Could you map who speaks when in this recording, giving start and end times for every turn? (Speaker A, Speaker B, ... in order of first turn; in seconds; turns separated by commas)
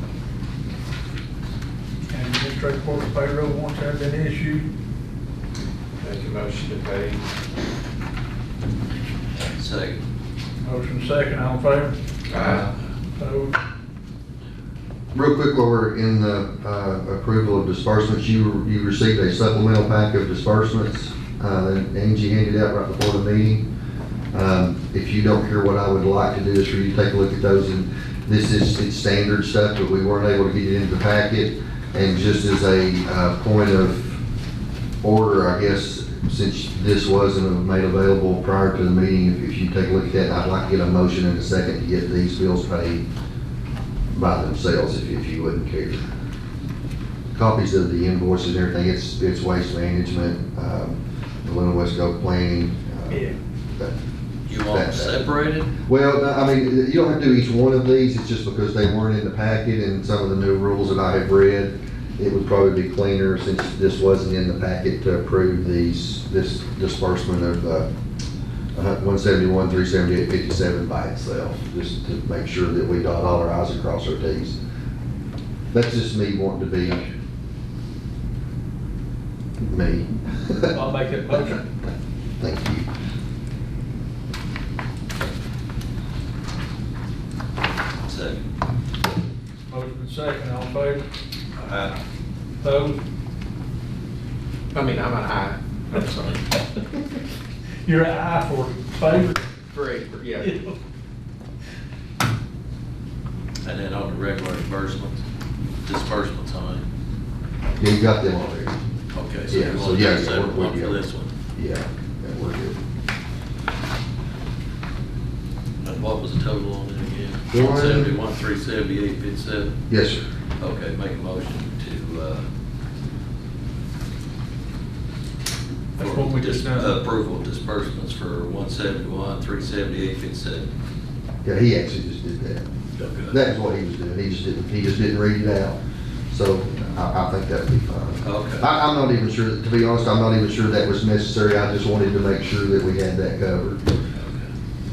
Speaker A: 2.1-4.7, Speaker B: 6.0-7.2, Speaker C: 9.5-10.0, Speaker A: 10.6-11.9, Speaker B: 12.3-12.7, Speaker A: 13.2-13.6, Speaker D: 15.1-23.6, Speaker D: 24.3-34.2, Speaker D: 35.0-43.0, Speaker D: 44.1-46.1, Speaker D: 47.3-53.9, Speaker A: 53.1-53.4, Speaker C: 54.5-55.7, Speaker D: 54.6-67.9, Speaker D: 68.7-74.6, Speaker D: 75.7-77.0, Speaker D: 79.6-80.8, Speaker A: 80.7-81.6, Speaker D: 82.4-82.9, Speaker C: 88.0-88.4, Speaker A: 89.7-91.0, Speaker A: 92.6-93.0, Speaker B: 94.7-96.4, Speaker A: 97.8-99.4, Speaker B: 99.7-100.5, Speaker A: 100.4-100.7, Speaker C: 103.6-105.2, Speaker C: 105.8-106.8, Speaker D: 107.8-108.8, Speaker C: 109.1-111.3, Speaker D: 109.5-111.0, Speaker D: 111.5-112.8, Speaker C: 115.8-119.7, Speaker D: 117.5-118.1, Speaker D: 119.9-120.2, Speaker C: 120.6-122.4, Speaker A: 126.0-126.9, Speaker C: 126.0-130.7, Speaker D: 131.4-132.6, Speaker C: 133.0-133.3, Speaker D: 133.3-135.8, Speaker D: 136.3-143.8, Speaker C: 138.2-138.7, Speaker C: 144.1-144.5